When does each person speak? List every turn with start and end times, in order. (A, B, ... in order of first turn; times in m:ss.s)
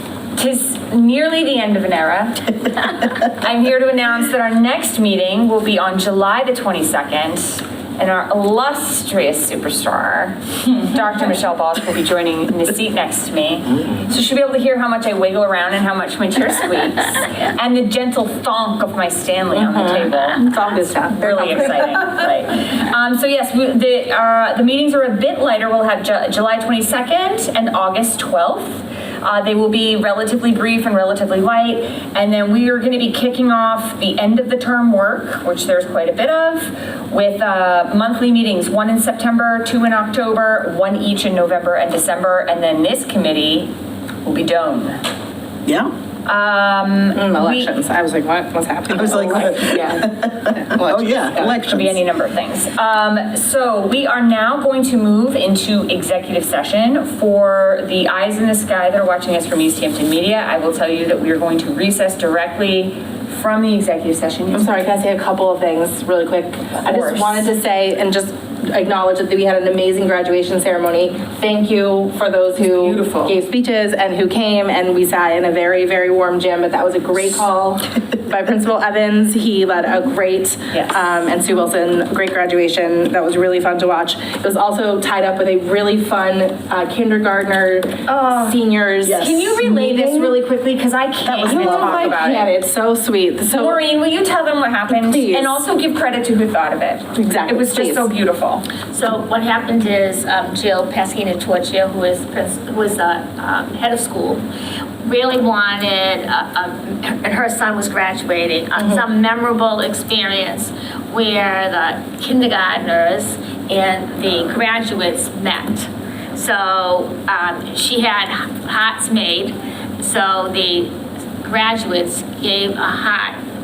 0:00.3-0:20.4 A
0:19.5-0:22.2 B
0:21.1-0:43.7 A
0:44.2-0:45.0 A
0:45.7-0:45.9 C
0:46.2-0:47.7 A
0:47.2-0:51.6 B
0:48.9-0:51.9 C
0:51.4-1:04.7 A
1:04.5-1:30.4 B
1:06.8-1:07.5 A
1:12.6-1:13.4 A
1:20.7-1:21.2 A
1:28.1-1:28.6 A
1:29.0-1:29.5 C
1:29.2-1:32.5 A
1:31.2-1:32.1 C
1:31.4-1:33.8 B
1:33.5-1:38.6 A
1:34.9-1:35.6 B
1:37.2-1:38.1 B
1:38.9-1:44.4 D
1:45.0-2:00.9 D
2:01.4-2:03.4 D